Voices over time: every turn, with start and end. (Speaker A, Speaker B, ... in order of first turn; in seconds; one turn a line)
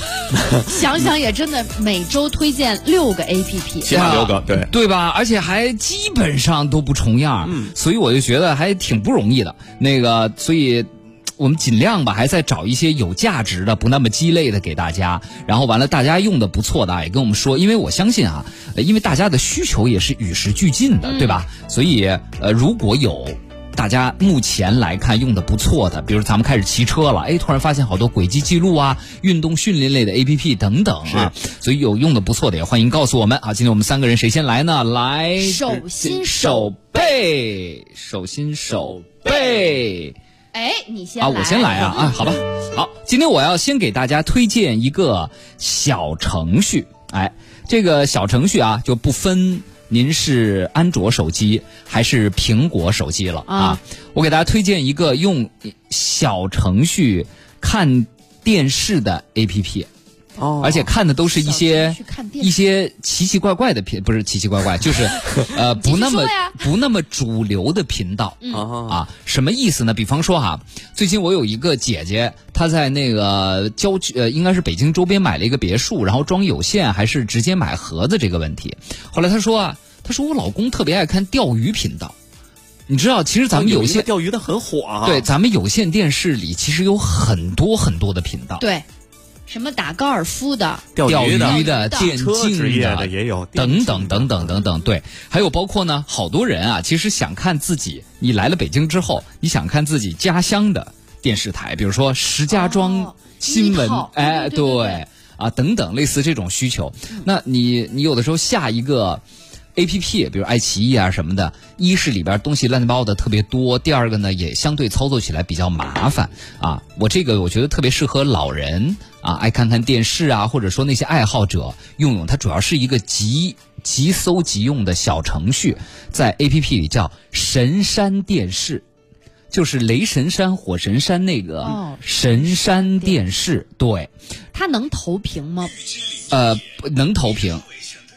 Speaker A: 0.3-0.7
Speaker B: 0.6-4.0
Speaker A: 3.9-4.7
Speaker C: 3.9-40.2
Speaker A: 7.5-7.7
Speaker B: 21.0-21.4
Speaker B: 35.4-37.1
Speaker B: 39.3-39.5
Speaker B: 40.5-42.3
Speaker C: 41.2-59.9
Speaker B: 53.5-53.8
Speaker A: 60.4-60.9
Speaker C: 60.6-82.2
Speaker B: 61.2-62.6
Speaker B: 65.4-66.6
Speaker A: 68.5-69.0
Speaker C: 82.9-84.1
Speaker A: 83.5-85.3
Speaker C: 85.0-88.6
Speaker B: 88.6-88.8
Speaker B: 89.5-92.1
Speaker A: 91.0-94.5
Speaker C: 91.0-109.2
Speaker B: 102.5-105.0
Speaker C: 109.8-128.8
Speaker C: 129.5-134.1
Speaker B: 131.6-133.2
Speaker B: 134.5-135.8
Speaker C: 136.3-137.7